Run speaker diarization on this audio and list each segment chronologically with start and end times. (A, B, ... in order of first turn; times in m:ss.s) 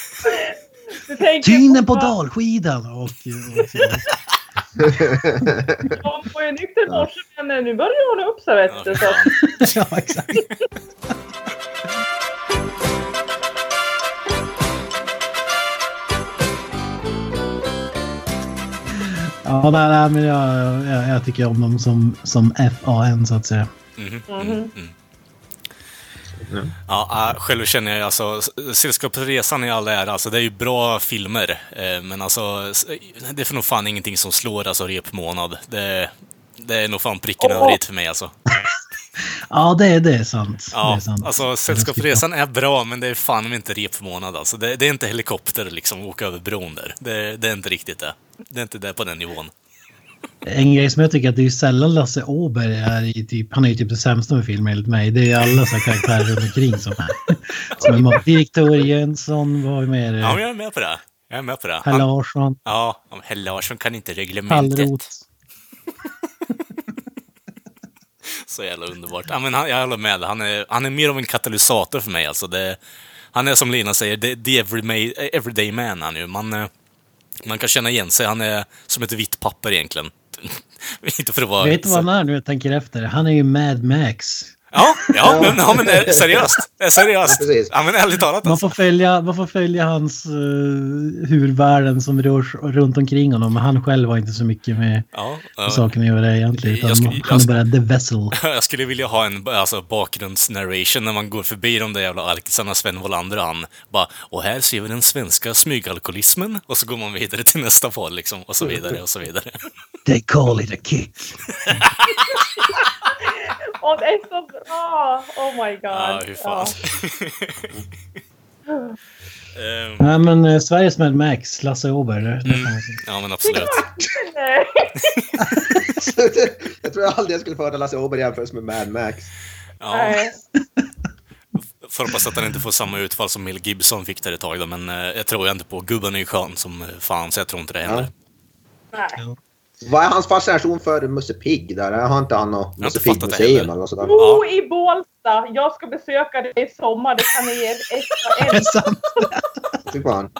0:00.2-0:02.1 A
0:01.4-0:04.0 B
0:03.6-0:03.9 A
0:04.8-0:05.9 C
0:05.9-0:09.2 A
0:08.7-0:09.4 D
0:09.6-0:10.4 B
0:18.9-0:23.7 B
0:24.0-0:24.9 D
0:24.3-0:24.7 A
0:26.5-0:26.7 C
0:26.9-0:38.3 D
0:37.4-0:37.8 A
0:39.5-0:42.2 B
0:40.7-0:49.5 D
0:50.4-1:00.4 B
0:57.8-0:58.2 C
1:00.2-1:02.0 D
1:01.8-1:02.6 B
1:02.6-1:04.9 D
1:04.5-1:05.2 B
1:08.2-1:12.8 D
1:13.3-1:16.7 D
1:17.4-1:22.0 D
1:21.6-1:24.6 B
1:24.7-1:28.7 D
1:25.2-1:26.3 C
1:27.2-1:27.7 C
1:28.4-1:35.1 B
1:35.1-1:35.9 D
1:35.6-1:38.4 B
1:36.6-1:37.6 D
1:38.3-1:49.6 D
1:50.0-1:51.7 B
1:52.1-1:56.8 A
1:55.9-1:57.7 D
1:58.7-1:58.9 A
1:59.5-2:00.1 D
2:00.0-2:03.0 B
2:02.4-2:03.8 D
2:03.4-2:05.2 A
2:05.8-2:09.3 C
2:09.8-2:10.2 D
2:09.9-2:10.4 A
2:11.8-2:18.1 D
2:18.9-2:19.2 A
2:19.8-2:24.2 C
2:22.8-2:24.4 D
2:24.0-2:28.7 A
2:28.4-2:29.7 B
2:29.9-2:30.3 C